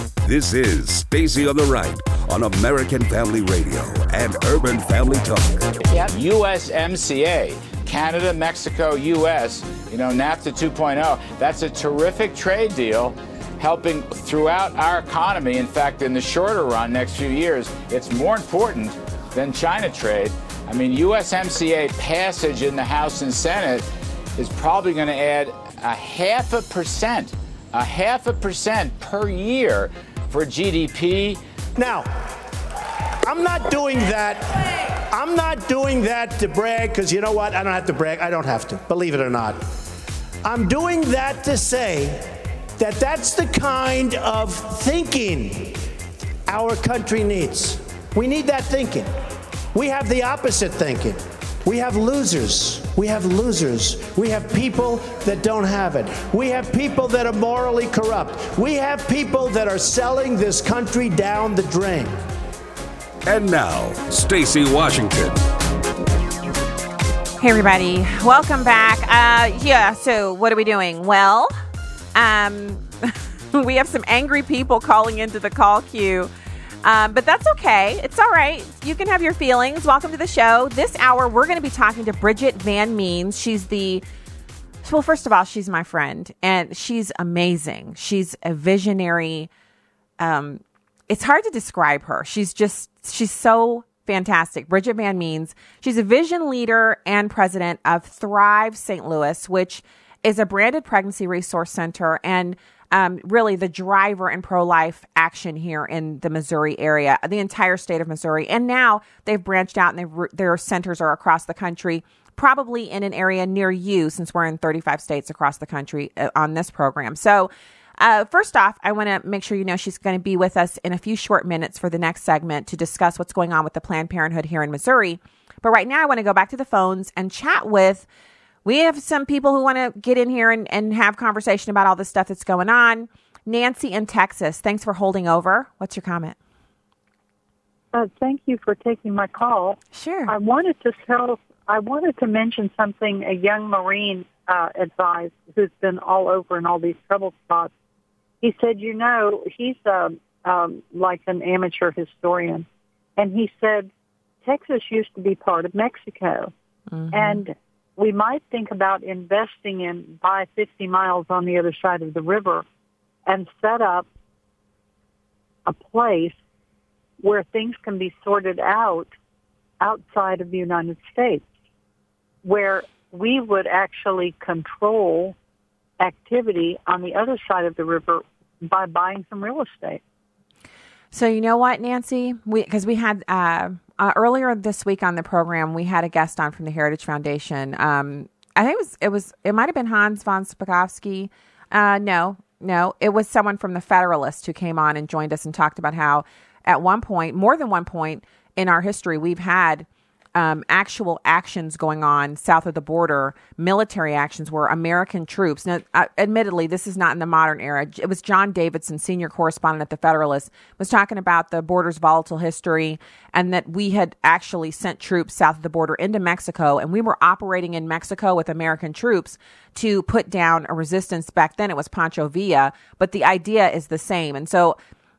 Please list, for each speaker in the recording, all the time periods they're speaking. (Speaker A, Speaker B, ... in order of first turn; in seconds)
Speaker A: 0.2-5.8, 63.2-65.4
Speaker B: 5.9-23.9, 24.4-31.4
Speaker C: 31.8-32.1, 33.2-34.6, 35.1-39.6, 40.4-45.8, 46.5-49.1, 49.7-62.2
Speaker D: 67.4-71.5, 72.1-76.3, 76.8-84.0, 84.8-89.5, 90.2-128.1, 128.6-136.4, 139.9-140.3, 156.9-157.4, 181.1-224.8
Speaker E: 137.9-147.7, 148.4-153.9, 154.4-156.5, 157.1-162.6, 163.3-164.1, 165.7-166.4, 167.2-169.1, 169.8-171.4, 172.4-175.3, 176.0-180.0